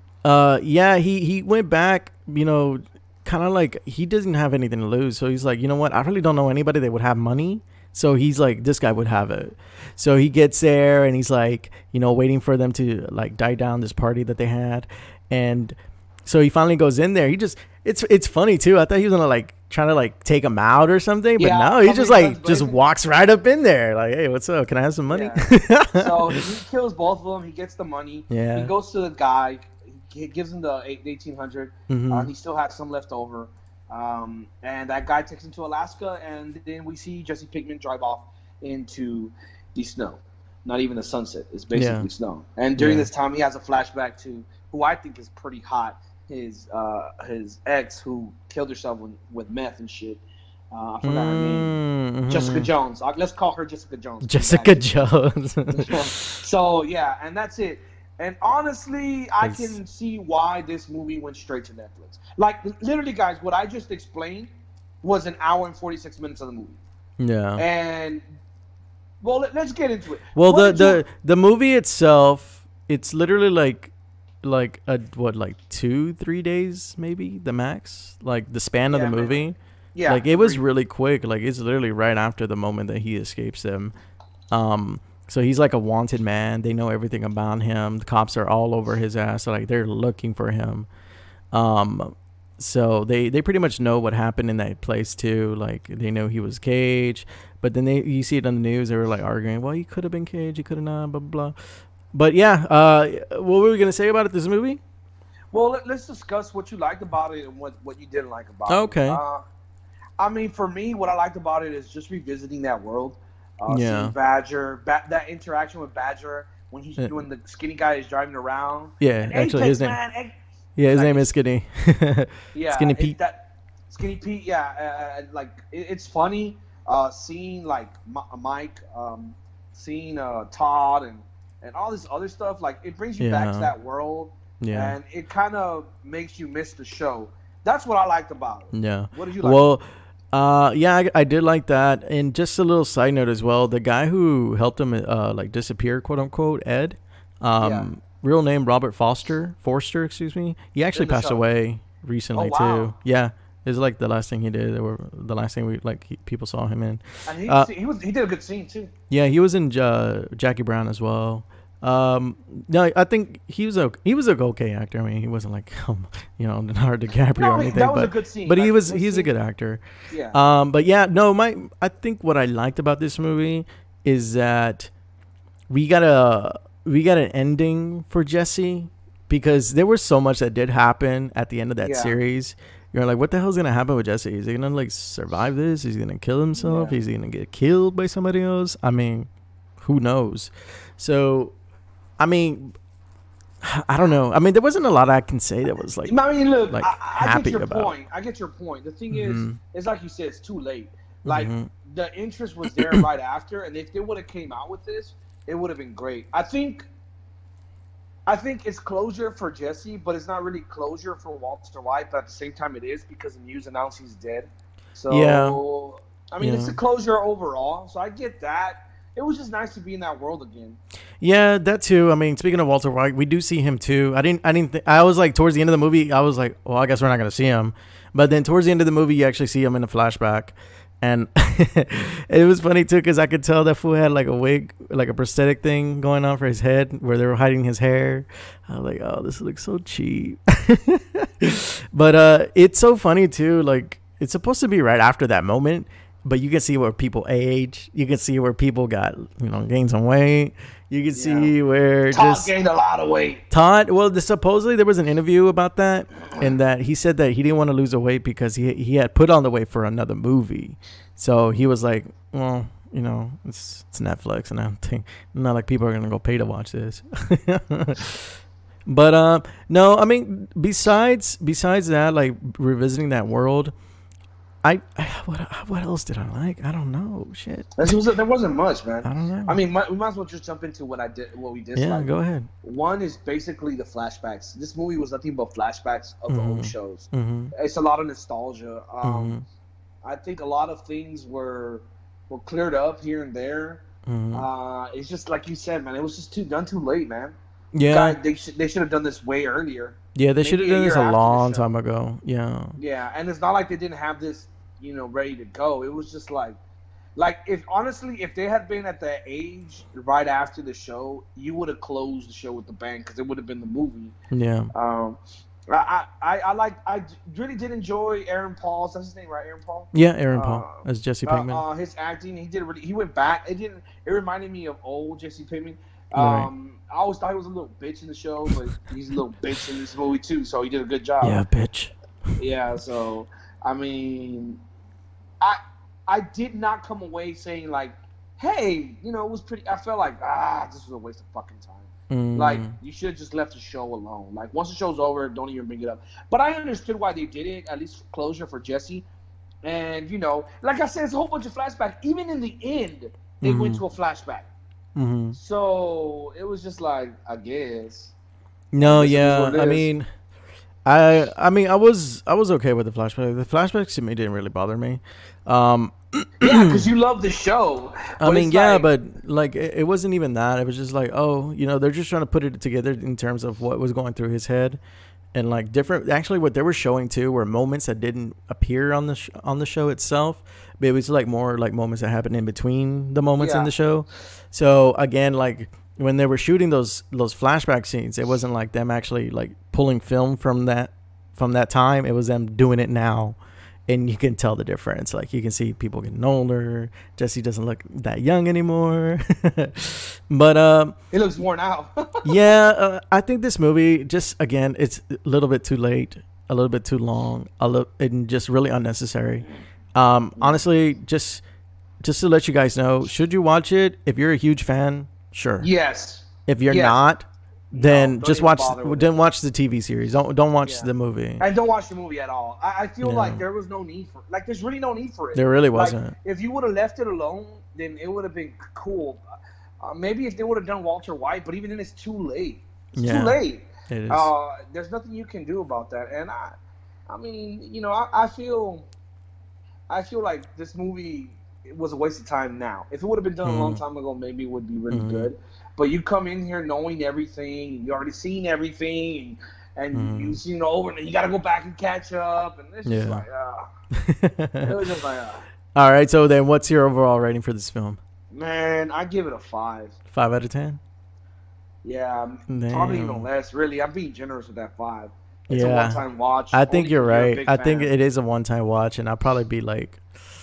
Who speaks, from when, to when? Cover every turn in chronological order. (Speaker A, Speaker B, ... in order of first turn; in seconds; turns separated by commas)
Speaker A: 0.2-26.5, Speaker B: 21.4-22.8, Speaker B: 25.1-51.7, Speaker A: 28.3-28.7, Speaker A: 31.9-32.3, Speaker A: 41.7-42.1, Speaker A: 42.8-43.1, Speaker A: 51.0-52.7, Speaker B: 52.3-54.9, Speaker A: 54.2-56.2, Speaker B: 55.7-66.8, Speaker A: 59.4-59.8, Speaker A: 67.2-67.6, Speaker B: 67.6-68.2, Speaker B: 69.2-71.0, Speaker A: 70.3-83.9, Speaker B: 78.9-79.4, Speaker B: 79.9-80.6, Speaker A: 84.5-90.9, Speaker A: 91.5-101.5, Speaker A: 102.1-104.8, Speaker B: 105.5-109.4, Speaker A: 108.7-109.2, Speaker B: 110.2-120.4, Speaker A: 113.7-114.1, Speaker A: 117.0-117.2, Speaker A: 119.0-120.0, Speaker A: 120.8-123.2, Speaker B: 120.9-121.3, Speaker B: 122.5-139.7, Speaker A: 133.2-133.7, Speaker A: 134.6-135.0, Speaker A: 138.7-157.7, Speaker B: 147.6-147.9, Speaker B: 150.9-151.4, Speaker B: 152.3-152.9, Speaker B: 157.3-158.9, Speaker A: 159.1-174.9, Speaker B: 167.3-169.3, Speaker B: 170.1-170.4, Speaker A: 175.7-189.3, Speaker B: 181.8-182.2, Speaker B: 186.6-187.0, Speaker A: 189.8-191.6, Speaker A: 192.2-192.7, Speaker A: 193.6-197.9, Speaker B: 196.0-206.9, Speaker A: 199.1-199.6, Speaker A: 201.2-201.7, Speaker A: 202.7-203.1, Speaker B: 208.2-220.8, Speaker A: 215.1-215.6, Speaker A: 216.4-216.8, Speaker A: 221.2-252.5, Speaker B: 251.1-251.5, Speaker B: 252.1-253.4, Speaker A: 253.5-268.3, Speaker A: 268.9-273.7, Speaker A: 274.6-278.0, Speaker B: 277.8-282.1, Speaker A: 279.0-279.6, Speaker A: 281.7-282.5, Speaker B: 282.6-289.4, Speaker A: 286.3-287.5, Speaker A: 289.0-289.4, Speaker B: 290.0-301.6, Speaker A: 294.1-294.5, Speaker A: 297.7-298.2, Speaker A: 300.1-302.8, Speaker B: 302.8-306.6, Speaker B: 307.1-314.1, Speaker A: 314.3-314.7, Speaker B: 314.7-331.4, Speaker A: 319.9-321.6, Speaker A: 326.1-326.5, Speaker A: 331.2-331.9, Speaker B: 332.4-334.6, Speaker B: 335.4-349.1, Speaker A: 342.1-342.7, Speaker B: 349.6-354.5, Speaker A: 353.4-353.8, Speaker A: 354.9-355.4, Speaker B: 355.3-358.1, Speaker A: 358.7-360.1, Speaker B: 358.8-359.9, Speaker A: 360.9-366.9, Speaker B: 366.4-368.9, Speaker A: 368.2-374.8, Speaker A: 375.3-400.9, Speaker B: 383.4-383.7, Speaker B: 401.1-402.4, Speaker A: 402.2-411.4, Speaker A: 412.0-415.7, Speaker B: 415.6-417.0, Speaker A: 416.5-421.4, Speaker B: 417.7-419.2, Speaker B: 420.6-429.2, Speaker A: 423.0-423.4, Speaker A: 425.3-426.1, Speaker B: 429.8-438.9, Speaker A: 432.9-434.3, Speaker B: 439.9-453.7, Speaker A: 443.4-443.8, Speaker A: 444.9-445.3, Speaker A: 449.9-450.4, Speaker A: 452.8-453.2, Speaker A: 453.9-454.8, Speaker B: 454.6-455.4, Speaker A: 455.7-458.0, Speaker B: 458.3-459.9, Speaker A: 460.1-460.8, Speaker B: 461.8-467.9, Speaker A: 462.5-463.3, Speaker A: 465.5-466.0, Speaker A: 466.5-470.0